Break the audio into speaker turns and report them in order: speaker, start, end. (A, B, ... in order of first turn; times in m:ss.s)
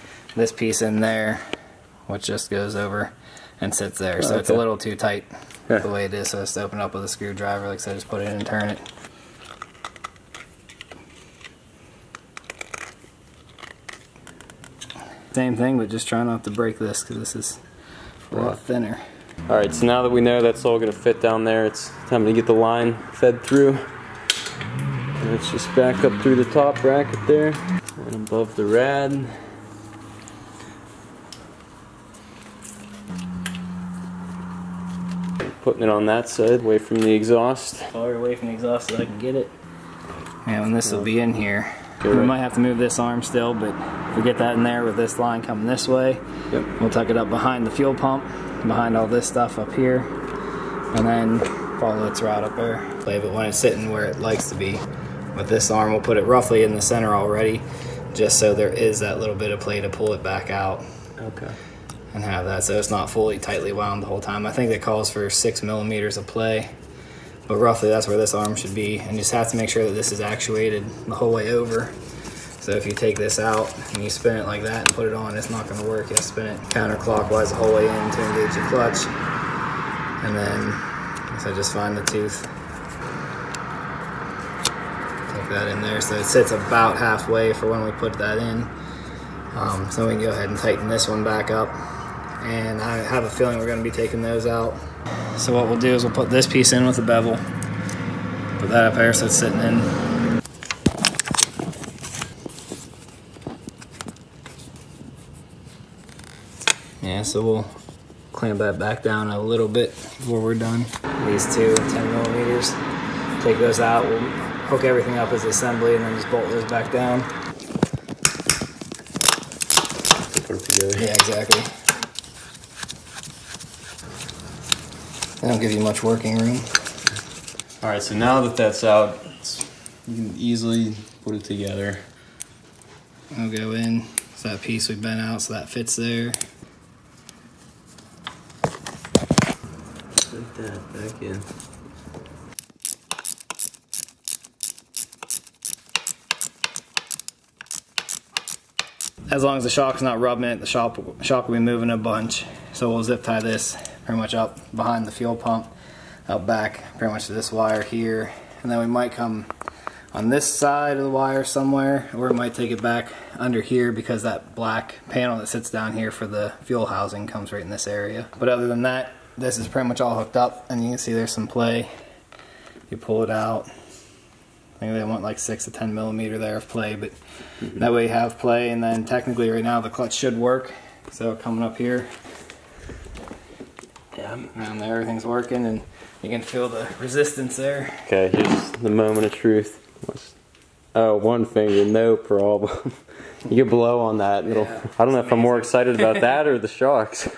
0:00.3-0:01.4 A
0:02.1-0:08.8 A
0:04.2-0:04.6 B
0:15.3-0:17.6 A
0:18.3-0:19.0 A
0:18.3-0:18.6 B
0:19.5-0:23.8 B
0:25.2-0:29.4 B
0:35.4-0:37.9 B
0:37.9-0:39.5 A
0:40.4-0:50.1 A
0:42.0-0:42.3 B
0:50.9-0:54.8 A
0:55.3-1:00.8 A
1:01.2-1:01.6 B
1:02.1-1:06.7 A
1:07.5-1:11.9 A
1:12.6-1:19.1 A
1:20.2-1:22.5 A
1:25.3-1:28.7 A
1:29.5-1:31.8 A
1:32.4-1:34.8 A
1:35.4-1:37.4 A
1:38.6-1:39.9 A
1:47.0-1:47.7 A
1:48.3-1:52.8 A
1:53.4-1:57.3 A
2:00.3-2:01.1 B
2:01.0-2:01.7 A
2:05.4-2:06.7 A
2:07.8-2:12.0 B
2:13.3-2:16.4 A
2:20.2-2:21.4 B
2:29.3-2:35.7 A
2:36.3-2:39.5 A
2:40.1-2:51.9 A
2:52.9-2:53.7 A
2:54.8-2:57.1 A
2:57.7-3:02.1 A
3:04.2-3:04.5 B
3:04.5-3:08.0 A
3:08.1-3:10.3 B
3:10.9-3:17.3 B
3:14.5-3:16.2 A